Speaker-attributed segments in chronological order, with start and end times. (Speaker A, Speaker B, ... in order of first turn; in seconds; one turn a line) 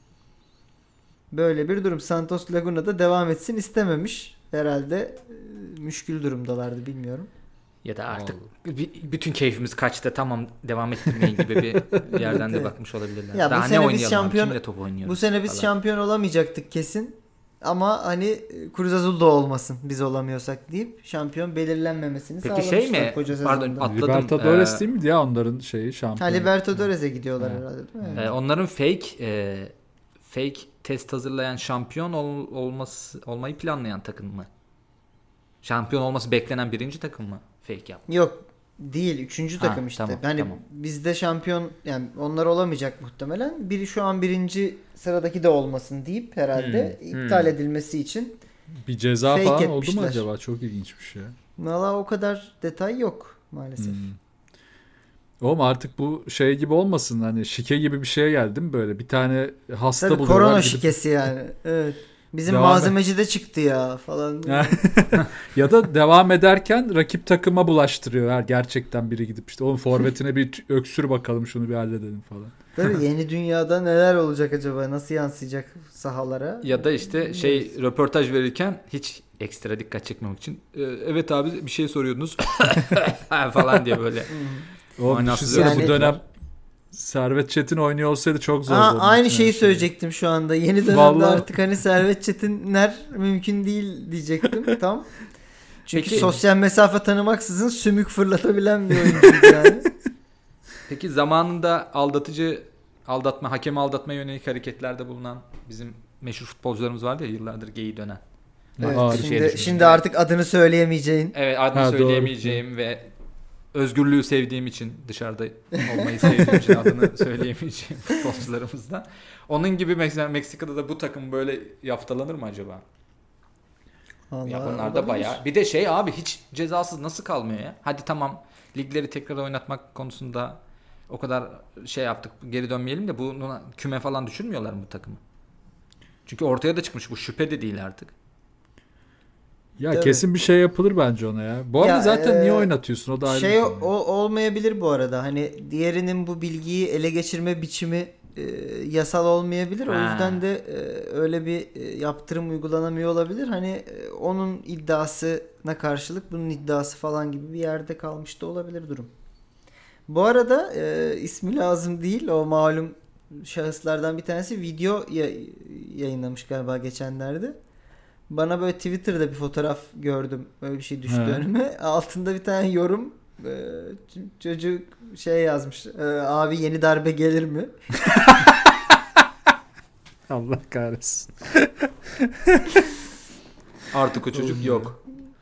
Speaker A: 1.3-7.3
Speaker B: 7.8-15.7
Speaker A: 12.1-12.7
Speaker A: 13.3-23.9
Speaker B: 22.4-24.8
Speaker C: 23.8-26.5
Speaker A: 26.2-28.3
Speaker C: 27.4-28.3
Speaker B: 28.2-34.5
Speaker B: 35.6-38.0
Speaker A: 38.1-48.4
Speaker B: 39.6-40.6
Speaker B: 46.5-47.5
Speaker C: 48.9-51.4
Speaker A: 49.3-50.2
Speaker A: 51.6-54.1
Speaker C: 53.8-54.2
Speaker C: 55.4-61.0
Speaker A: 60.0-64.8
Speaker C: 62.5-62.9
Speaker C: 64.5-72.6
Speaker A: 72.8-77.7
Speaker B: 76.6-84.3
Speaker A: 84.3-84.7
Speaker C: 85.0-86.2
Speaker B: 85.0-86.2
Speaker A: 85.5-86.2
Speaker C: 86.9-89.9
Speaker A: 88.7-95.1
Speaker C: 90.9-91.5
Speaker A: 95.9-99.9
Speaker B: 95.9-96.4
Speaker C: 99.1-99.7
Speaker B: 100.9-108.2
Speaker C: 108.8-109.8
Speaker B: 108.8-110.0
Speaker A: 108.8-111.3
Speaker B: 111.3-113.1
Speaker C: 111.7-112.6
Speaker B: 113.7-122.8
Speaker A: 124.3-125.4
Speaker B: 124.5-135.2
Speaker B: 136.2-138.1
Speaker C: 139.8-143.9
Speaker A: 139.9-140.2
Speaker A: 141.8-142.7
Speaker A: 143.2-159.1
Speaker B: 149.9-150.4
Speaker A: 160.1-167.6
Speaker A: 168.3-177.7
Speaker C: 171.1-171.4
Speaker C: 178.1-178.8
Speaker C: 180.3-182.9
Speaker B: 183.9-185.0
Speaker C: 184.3-184.9